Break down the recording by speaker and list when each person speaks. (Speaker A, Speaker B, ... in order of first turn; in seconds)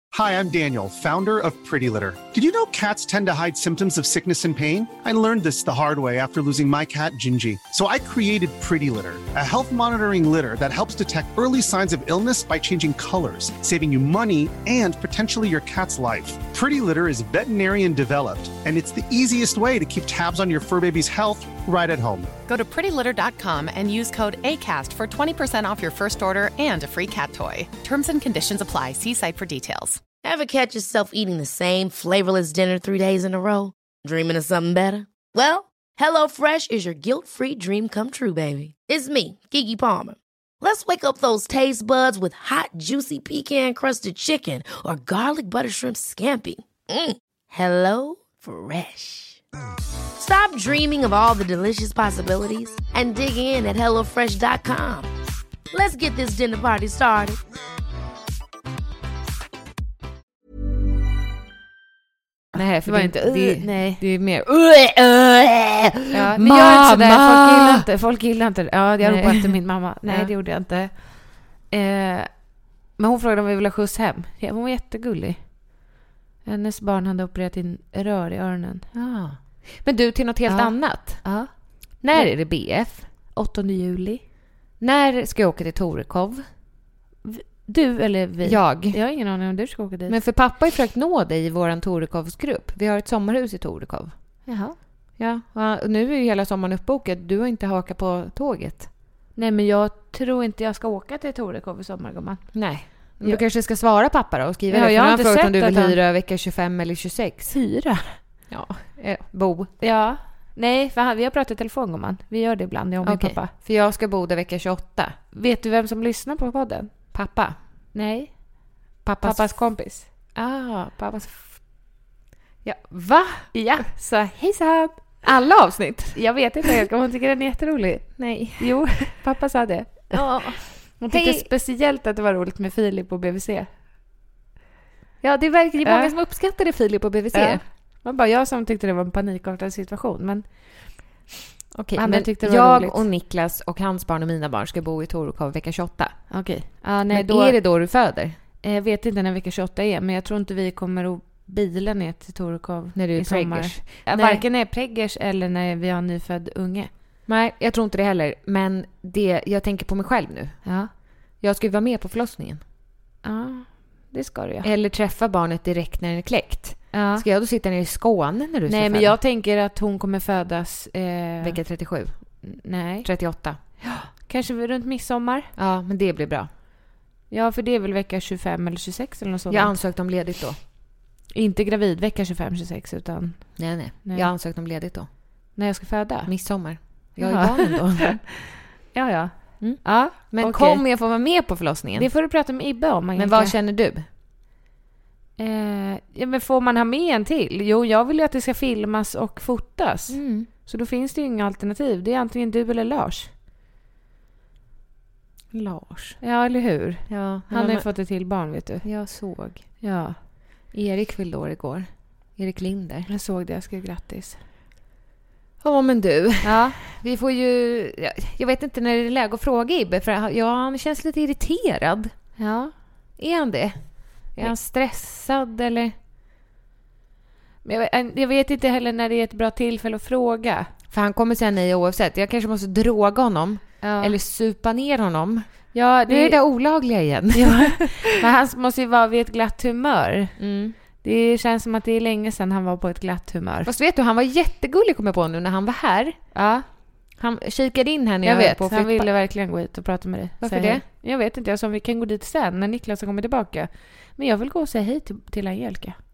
Speaker A: 0.1-22.3
Speaker B: 22.5-30.0
Speaker C: 30.2-49.4, 50.2-55.1, 55.7-57.4
Speaker D: 62.5-67.9, 69.0-70.3, 78.9-81.4, 82.0-83.1, 84.8-86.5, 88.4-89.0, 90.1-94.5, 95.2-98.9, 102.5-107.5, 108.5-109.7, 113.0-115.2, 117.1-117.6, 119.0-119.7, 120.3-121.6, 122.6-123.9, 125.2-126.7, 128.2-128.8, 130.1-131.5, 135.2-137.6, 141.7-146.4, 147.1-148.4, 152.9-154.4, 157.3-160.7, 161.4-162.6, 164.6-169.2, 171.4-172.4, 173.0-173.6, 175.6-176.5, 179.5-180.6, 183.6-185.1, 186.3-188.2, 189.6-192.1, 193.2-194.1, 200.1-200.5, 205.5-206.2, 207.1-208.3, 208.8-209.7, 210.7-213.1, 215.6-222.1, 223.2-225.9, 230.9-238.1, 240.4-240.8, 243.7-246.3, 247.1-249.1, 250.4-250.8
Speaker E: 62.9-64.0, 66.1-75.9, 76.4-78.9, 80.5-82.8, 83.3-84.2, 87.2-90.2, 94.5-94.8, 99.3-103.4, 104.7-106.0, 107.5-108.2, 109.8-113.5, 115.3-116.9, 117.9-118.7, 119.2-120.1, 123.5-125.2, 126.2-133.7, 135.8-136.1, 137.3-141.0, 142.0-143.1, 146.3-147.6, 148.6-156.9, 160.7-160.9, 163.2-164.7, 166.9-167.2, 168.7-171.6, 172.4-175.5, 177.3-179.8, 181.3-184.3, 185.6-186.3, 186.9-188.4, 188.9-190.8, 191.9-193.6, 195.4-203.3, 206.2-208.9, 209.8-210.2, 213.1-214.4, 216.4-216.8, 222.4-222.7, 227.6-230.7, 233.8-234.2, 235.7-236.4, 237.3-240.4, 241.0-243.7, 246.3-246.7, 248.2-256.0